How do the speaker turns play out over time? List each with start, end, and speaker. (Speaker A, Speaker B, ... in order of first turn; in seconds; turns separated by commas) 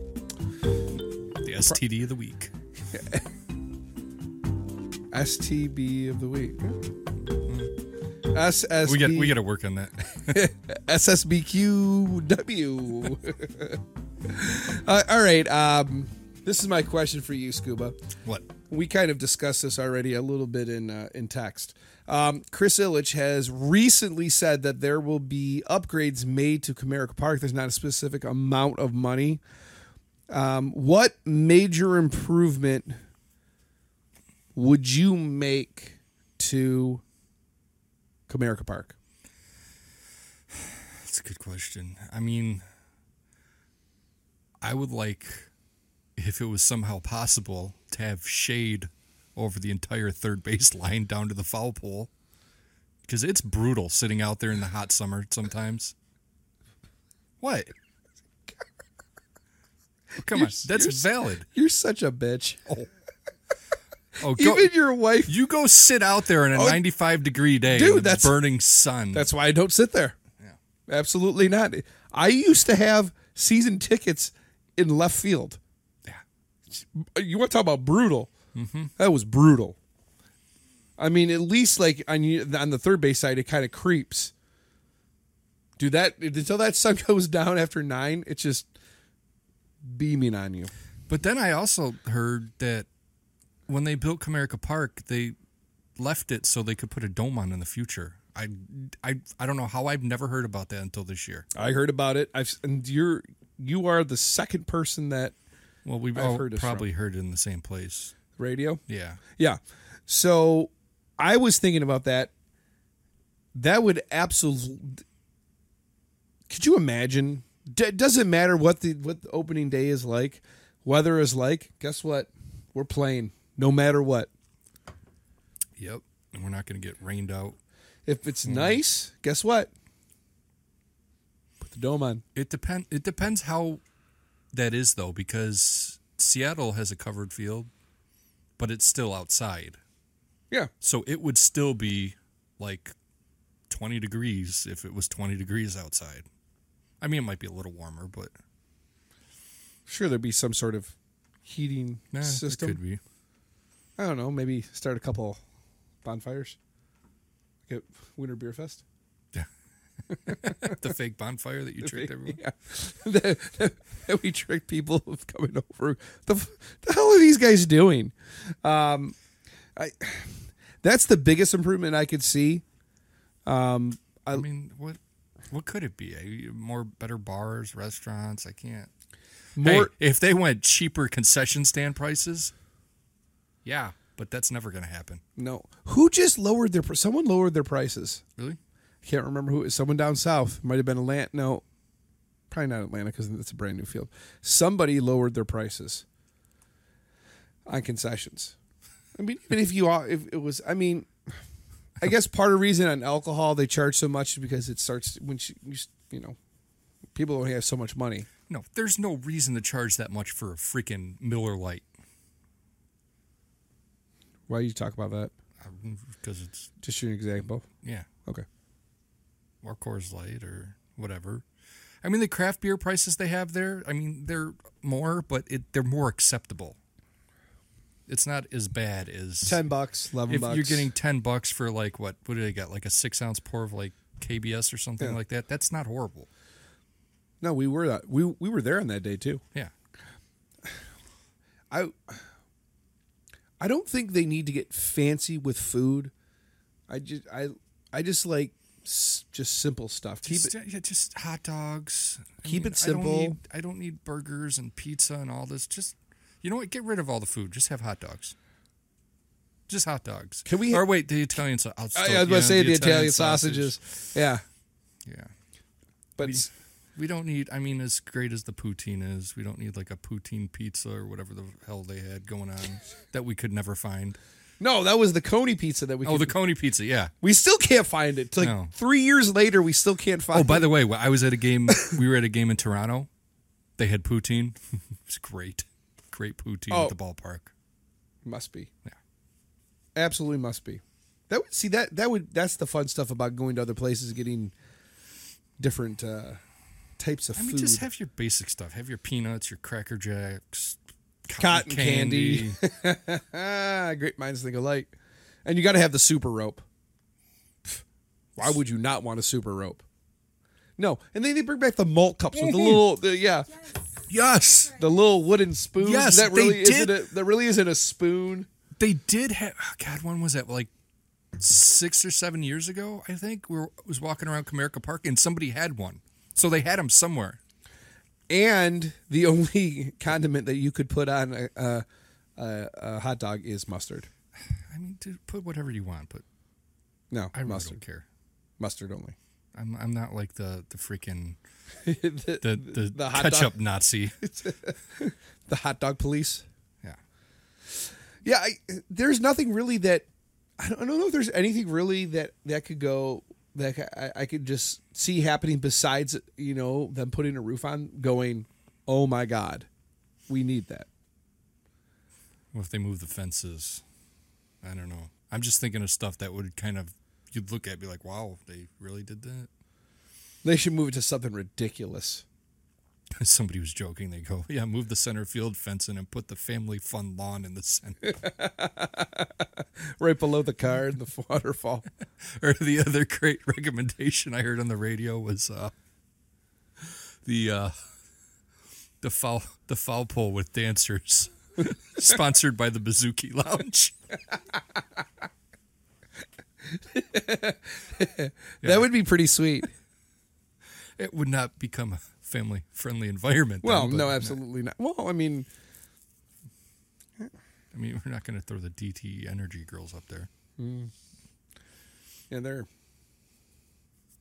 Speaker A: 1.4-2.5, Speaker B: 2.9-3.2, Speaker B: 5.1-6.8, Speaker B: 8.3-9.3, Speaker A: 8.8-10.4, Speaker B: 10.2-18.0, Speaker B: 18.7-29.4, Speaker B: 30.3-32.9, Speaker B: 34.5-37.0, Speaker B: 38.3-38.9, Speaker A: 40.6-42.6, Speaker A: 44.6-45.5, Speaker A: 46.2-52.1, Speaker A: 53.0-55.9, Speaker A: 57.4-57.7, Speaker A: 60.2-61.5, Speaker B: 60.2-62.7, Speaker A: 64.2-64.7, Speaker B: 64.3-65.3, Speaker A: 65.2-69.3, Speaker B: 66.5-66.8, Speaker B: 67.6-68.4, Speaker B: 69.1-70.1, Speaker B: 70.9-75.6, Speaker B: 76.7-78.3, Speaker A: 78.5-78.9, Speaker B: 79.0-79.8, Speaker B: 81.0-84.3, Speaker B: 85.8-88.7, Speaker B: 89.8-90.7, Speaker A: 91.1-92.9, Speaker A: 93.7-95.3, Speaker A: 96.0-101.5, Speaker B: 101.5-105.3, Speaker A: 105.8-108.1, Speaker B: 106.1-106.8, Speaker B: 108.4-108.8, Speaker A: 108.9-109.2, Speaker B: 109.3-112.3, Speaker B: 113.5-115.0, Speaker B: 116.5-124.3, Speaker A: 125.8-127.6, Speaker B: 128.1-129.7, Speaker A: 128.4-128.8, Speaker B: 131.6-132.2, Speaker A: 132.3-133.8, Speaker A: 134.5-137.7, Speaker A: 138.6-139.8, Speaker A: 140.8-142.9, Speaker A: 143.7-146.2, Speaker A: 147.0-148.3, Speaker B: 149.8-152.8, Speaker A: 152.1-153.0, Speaker B: 154.0-155.4, Speaker B: 156.0-156.6, Speaker B: 157.7-158.8, Speaker A: 160.2-162.4, Speaker B: 160.3-160.7, Speaker B: 161.8-169.1, Speaker B: 169.8-172.6, Speaker B: 173.4-174.4, Speaker A: 174.3-175.0, Speaker A: 175.5-178.9, Speaker B: 179.6-179.9, Speaker A: 179.6-182.5, Speaker A: 183.6-185.2, Speaker B: 185.4-188.2, Speaker B: 189.0-191.6, Speaker B: 192.5-196.0, Speaker B: 197.7-198.5, Speaker B: 199.2-201.1, Speaker B: 202.0-206.4, Speaker B: 207.1-208.3, Speaker A: 208.5-211.8, Speaker B: 214.5-215.3, Speaker A: 215.6-216.7, Speaker B: 216.8-217.7, Speaker A: 217.8-218.1, Speaker A: 219.6-221.4, Speaker A: 222.0-226.8, Speaker A: 228.1-229.6, Speaker B: 229.4-230.9, Speaker A: 230.3-236.3, Speaker B: 237.4-239.4, Speaker B: 241.7-242.2, Speaker B: 243.6-246.1, Speaker B: 246.9-250.5, Speaker A: 250.2-258.3, Speaker B: 252.4-253.4, Speaker A: 259.7-263.7, Speaker B: 260.4-260.8, Speaker B: 261.9-264.4, Speaker A: 265.1-265.3, Speaker B: 266.2-266.5, Speaker A: 266.2-274.2, Speaker B: 274.6-276.4, Speaker A: 276.0-277.1, Speaker B: 277.2-280.7, Speaker A: 278.4-278.7, Speaker A: 280.3-283.1, Speaker A: 283.8-287.5, Speaker B: 286.7-286.9, Speaker B: 288.2-288.7, Speaker B: 289.9-294.5, Speaker B: 295.6-296.4, Speaker B: 297.0-297.9, Speaker A: 297.4-302.6, Speaker B: 301.4-304.9, Speaker B: 305.4-306.6, Speaker B: 308.4-309.8, Speaker B: 310.8-313.7, Speaker A: 312.4-312.8, Speaker A: 314.1-314.8, Speaker B: 314.6-318.5, Speaker A: 315.8-317.0, Speaker A: 318.8-320.7, Speaker A: 321.4-327.4, Speaker B: 328.3-331.8, Speaker B: 332.4-334.1, Speaker A: 334.5-336.2, Speaker B: 337.1-337.8, Speaker A: 337.3-338.1, Speaker B: 338.6-339.1, Speaker A: 339.5-341.4, Speaker B: 341.8-343.5, Speaker A: 342.4-344.2, Speaker B: 344.2-346.4, Speaker B: 348.2-350.1, Speaker B: 350.6-359.7, Speaker B: 360.3-360.9, Speaker A: 362.5-363.8, Speaker A: 364.6-369.5, Speaker B: 370.4-372.2, Speaker A: 373.2-378.1, Speaker B: 378.0-381.9, Speaker A: 382.2-385.7, Speaker A: 386.8-387.7, Speaker A: 389.0-393.9, Speaker B: 396.7-399.7, Speaker A: 398.6-398.9, Speaker A: 401.0-404.4, Speaker B: 403.6-405.5, Speaker A: 407.7-410.3, Speaker B: 410.6-410.9, Speaker B: 412.3-412.7